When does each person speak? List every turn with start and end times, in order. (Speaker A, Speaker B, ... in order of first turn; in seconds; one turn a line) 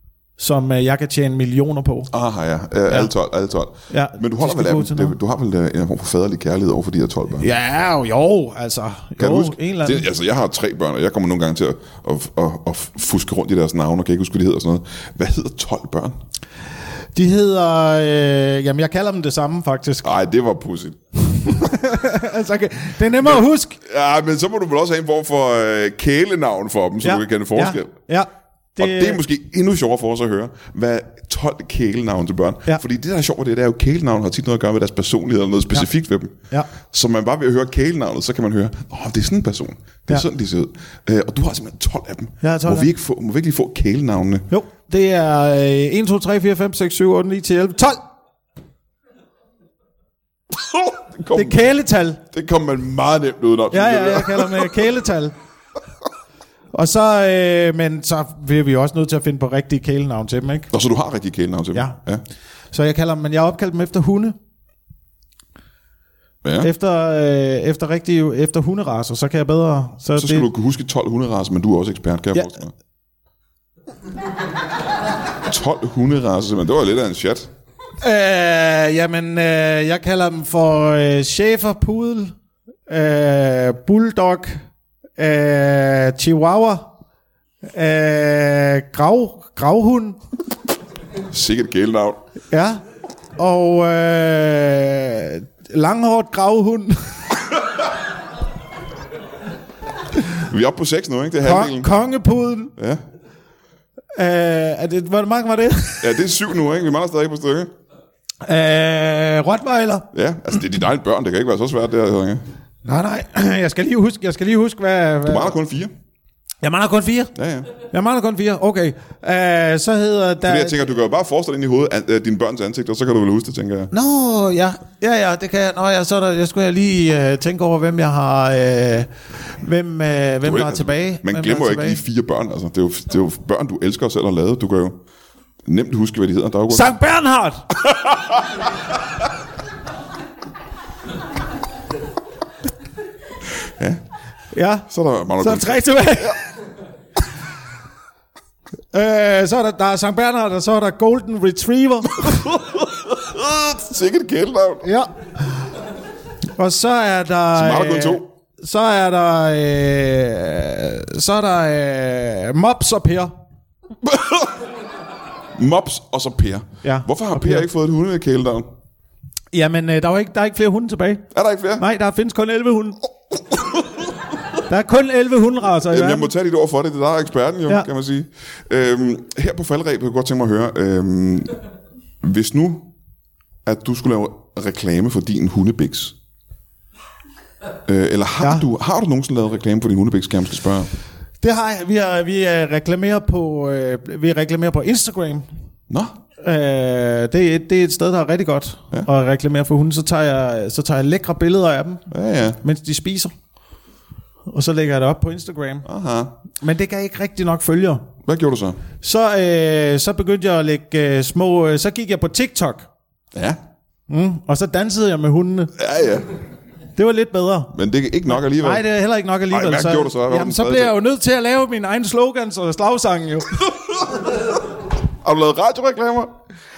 Speaker A: 0.4-2.1
Speaker B: 2.1-7.5
Speaker A: 3.9-5.1
Speaker A: 7.4-10.1
Speaker B: 9.2-16.2
Speaker A: 17.1-20.2
Speaker B: 20.0-21.0
Speaker A: 21.4-23.8
Speaker B: 23.2-27.9
Speaker A: 27.0-29.2
Speaker B: 28.8-44.5
Speaker A: 42.4-42.9
Speaker A: 44.5-48.0
Speaker B: 50.5-51.6
Speaker A: 51.3-52.2
Speaker B: 52.3-54.8
Speaker A: 53.7-55.4
Speaker A: 56.7-60.7
Speaker B: 60.7-62.2
Speaker A: 62.7-64.3
Speaker B: 66.4-66.7
Speaker A: 66.6-70.5
Speaker B: 70.2-72.7
Speaker B: 75.5-77.5
Speaker A: 78.0-82.3
Speaker A: 82.9-84.6
Speaker A: 85.2-86.9
Speaker A: 87.7-90.2
Speaker B: 91.3-92.2
Speaker A: 92.5-92.8
Speaker A: 93.4-97.2
Speaker B: 100.4-101.9
Speaker A: 101.4-102.7
Speaker A: 104.1-106.2
Speaker B: 106.0-107.7
Speaker A: 108.5-110.1
Speaker B: 110.1-112.4
Speaker A: 112.8-115.5
Speaker B: 115.3-115.9
Speaker A: 116.6-117.3
Speaker B: 117.3-117.7
Speaker A: 117.9-120.9
Speaker B: 120.5-123.9
Speaker A: 123.9-132.0
Speaker B: 130.5-135.0
Speaker B: 135.7-136.9
Speaker A: 136.7-137.7
Speaker B: 137.8-138.5
Speaker A: 144.5-146.4
Speaker B: 144.9-146.4
Speaker A: 148.9-152.5
Speaker B: 152.6-154.8
Speaker A: 154.8-155.6
Speaker A: 156.6-163.3
Speaker B: 157.6-158.2
Speaker B: 164.0-164.5
Speaker B: 165.6-168.7
Speaker A: 166.8-167.7
Speaker A: 169.5-171.3
Speaker B: 171.3-171.8
Speaker A: 171.8-173.0
Speaker A: 174.7-176.3
Speaker B: 175.9-181.6
Speaker B: 182.2-182.9
Speaker B: 183.7-186.2
Speaker B: 187.9-190.9
Speaker A: 191.4-195.5
Speaker A: 196.4-202.1
Speaker B: 202.1-202.6
Speaker A: 202.6-203.3
Speaker A: 204.5-205.9
Speaker B: 205.9-206.3
Speaker A: 206.6-208.1
Speaker B: 208.3-208.8
Speaker A: 209.0-212.9
Speaker B: 213.3-213.6
Speaker A: 214.1-215.7
Speaker B: 215.8-216.3
Speaker A: 217.0-217.7
Speaker B: 217.7-218.8
Speaker A: 218.3-223.7
Speaker B: 219.5-220.9
Speaker B: 225.2-226.3